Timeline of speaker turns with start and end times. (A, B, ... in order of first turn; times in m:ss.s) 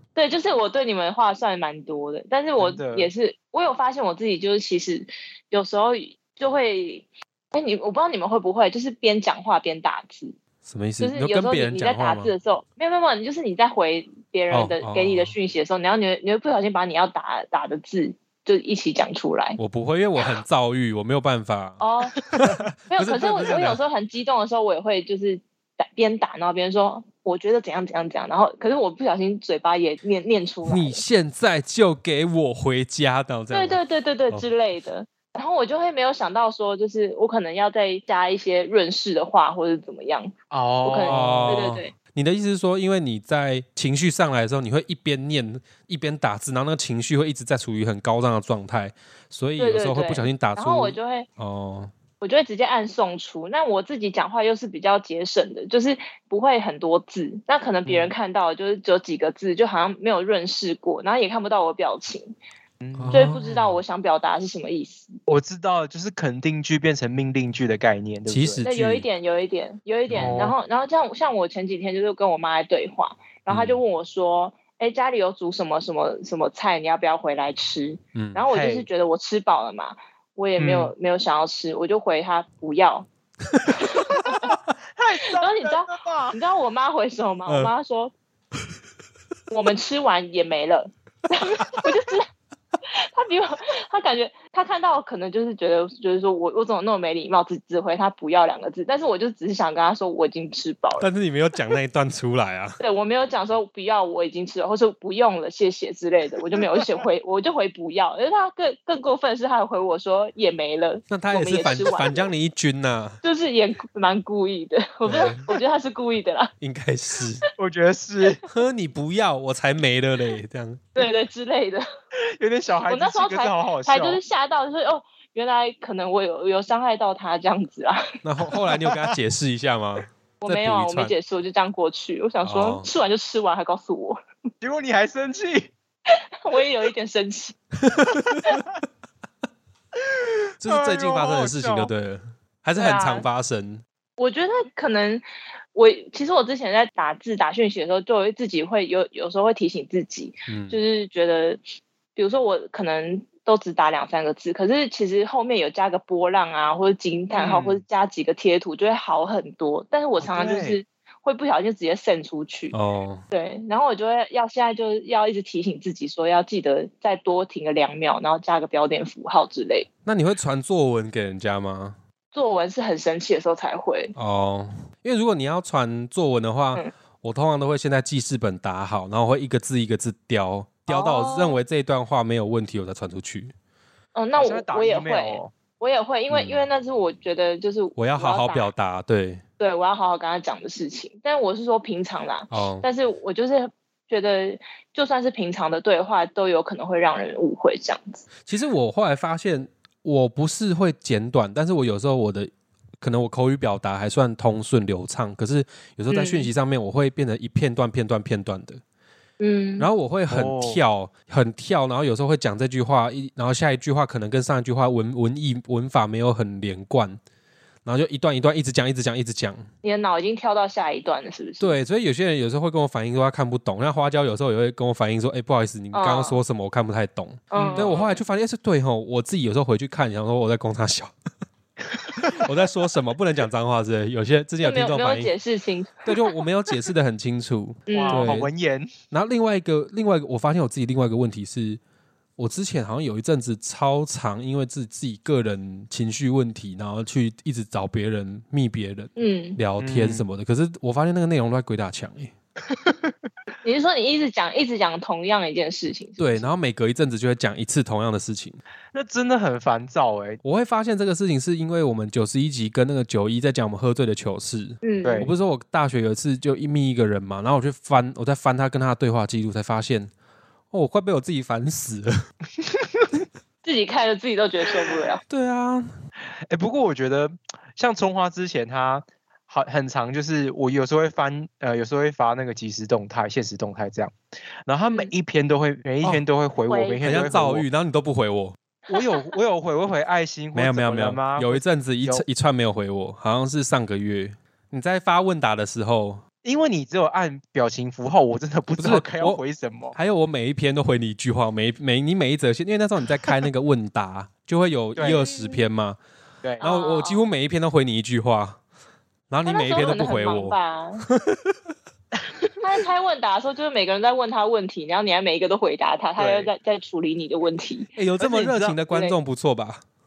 0:00.1-0:10.4 A
0:02.6-0:03.1 B
0:10.6-0:12.3 C
0:11.0-0:19.6 A
0:14.5-0:15.3 C
0:19.6-0:21.8 C
0:21.8-0:22.2 A
0:22.4-0:23.8 C
0:22.9-0:31.0 A
0:30.6-0:33.8 C
0:33.5-0:41.9 A
0:40.5-0:41.7 B
0:41.0-0:51.9 C
0:49.6-0:51.3 A
0:52.2-1:02.3 A
0:57.9-0:58.1 B
1:02.8-1:03.3 B
1:03.0-1:03.8 C
1:03.1-1:05.1 A
1:05.3-1:08.6 B
1:08.3-1:09.1 C
1:08.6-1:23.1 A
1:10.1-1:10.5 C
1:10.1-1:10.6 B
1:13.5-1:13.8 C
1:18.1-1:18.4 C
1:18.5-1:18.9 B
1:20.6-1:20.9 B
1:23.7-1:24.5 A
1:25.0-1:26.4 B
1:25.4-1:28.1 A
1:27.5-1:27.7 C
1:29.5-1:32.3 A
1:32.9-1:41.1 A
1:41.0-1:42.8 C
1:42.8-1:52.3 A
1:51.1-1:53.2 C
1:53.2-1:56.5 A
1:55.0-1:55.4 C
1:56.6-1:57.4 C
1:57.6-1:58.4 B
1:58.5-2:01.0 C
2:01.0-2:01.8 A
2:02.4-2:04.2 B
2:02.9-2:08.0 A
2:08.2-2:11.1 C
2:08.6-2:09.1 B
2:10.4-2:14.2 A
2:12.4-2:12.9 C
2:14.6-2:15.7 B
2:16.1-2:17.6 A
2:17.8-2:18.6 C
2:20.1-2:21.9 B
2:20.6-2:23.8 C
2:22.8-2:23.3 A
2:24.2-2:25.2 A
2:25.8-2:31.6 A
2:30.5-2:30.8 C
2:32.1-2:42.8 A
2:37.3-2:37.8 B
2:40.2-2:40.8 B
2:42.7-2:43.2 C
2:43.3-2:49.9 A
2:50.0-2:52.0 C
2:52.3-2:54.1 A
2:54.2-3:03.5 C
3:00.9-3:01.6 A
3:04.1-3:08.7 A
3:04.4-3:05.5 B
3:06.3-3:06.7 C
3:08.0-3:09.4 C
3:09.6-3:18.2 A
3:12.5-3:12.9 C
3:18.5-3:28.8 C
3:26.1-3:26.5 A
3:29.4-3:29.9 A
3:29.8-3:37.2 C
3:30.3-3:30.8 B
3:37.8-3:39.6 C
3:39.8-3:41.8 A
3:41.6-3:51.1 C
3:45.9-3:46.4 A
3:47.5-3:48.1 A
3:47.5-3:48.1 B
3:52.1-3:55.3 C
3:54.6-3:56.1 A
3:56.0-3:58.5 C
3:57.9-3:58.3 A
3:57.9-3:58.9 B
3:59.1-4:01.8 C
4:02.4-4:12.3 C
4:09.2-4:09.6 A
4:09.8-4:10.2 B
4:13.6-4:16.5 A
4:16.2-4:18.6 C
4:18.9-4:20.4 B
4:20.4-4:30.1 C
4:24.8-4:25.3 A
4:25.0-4:25.3 B
4:30.7-4:32.1 C
4:32.8-4:33.2 B
4:33.6-4:35.2 A
4:35.3-4:35.9 C
4:36.5-4:44.1 B
4:44.6-4:47.6 B
4:44.9-4:45.1 A
4:46.7-4:47.0 A
4:47.0-4:48.6 C
4:48.9-4:52.2 B
4:48.9-4:49.3 A
4:50.5-4:56.2 C
4:56.4-5:00.0 B
4:58.8-4:59.4 C
4:59.9-5:06.0 C
5:05.0-5:05.2 B
5:05.1-5:05.6 A
5:06.6-5:08.6 C
5:06.6-5:07.2 A
5:09.3-5:11.6 C
5:09.4-5:11.0 A
5:12.6-5:17.9 A
5:16.2-5:16.5 B
5:18.0-5:19.8 C
5:18.2-5:18.8 B
5:18.9-5:19.2 A